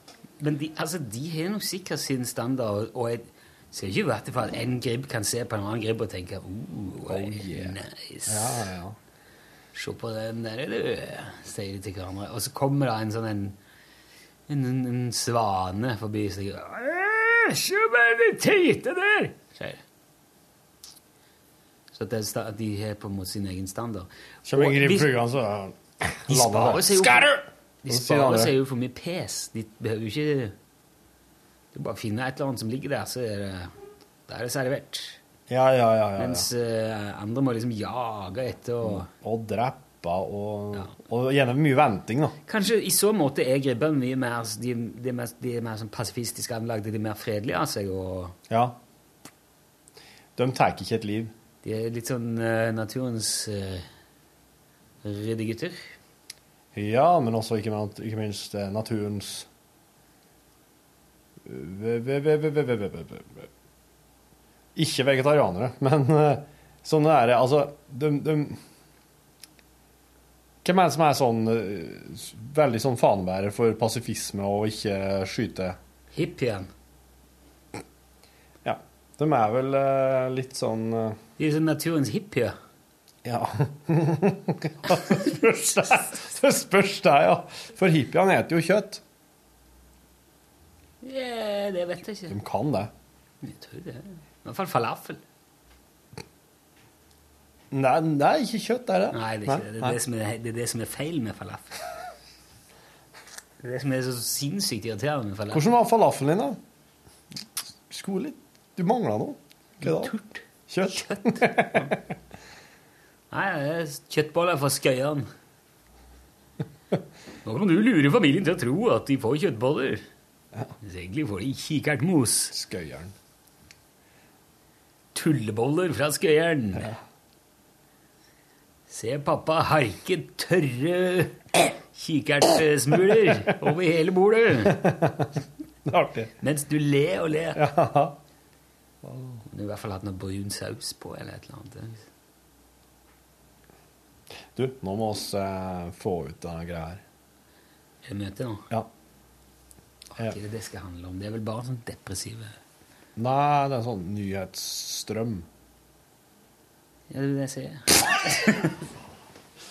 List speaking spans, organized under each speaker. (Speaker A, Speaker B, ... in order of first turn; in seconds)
Speaker A: 0.4-8.7, 9.7-13.6, 14.5-19.8, 21.9-25.1, 26.3-30.5, 31.7-33.7, 34.3-35.2, 36.2-39.1, 42.5-48.4, 51.6-53.9, 55.0-55.9, 76.1-76.7, 81.4-82.5, 91.0-92.3, 93.4-95.2, 99.1-101.8, 103.6-105.7, 109.8-111.9, 113.3-115.3, 117.4-120.0, 120.8-122.5, 125.1-126.9, 128.9-134.9, 136.4-137.6, 139.4-142.0, 148.0-148.6, 150.2-152.6, 157.1-158.8
Speaker B: 7.0-8.9, 24.4-28.5, 35.5-36.5, 38.8-42.4, 48.5-48.8, 50.4-51.3, 56.7-59.5, 61.4-63.5, 64.7-68.6, 70.6-75.8, 78.6-81.2, 83.2-89.0, 92.3-92.9, 97.7-100.0, 105.5-106.6, 107.9-110.1, 110.7-112.0, 122.5-123.1, 134.7-135.3, 135.8-136.3, 137.5-138.2, 139.0-139.4, 144.5-147.0, 153.2-155.5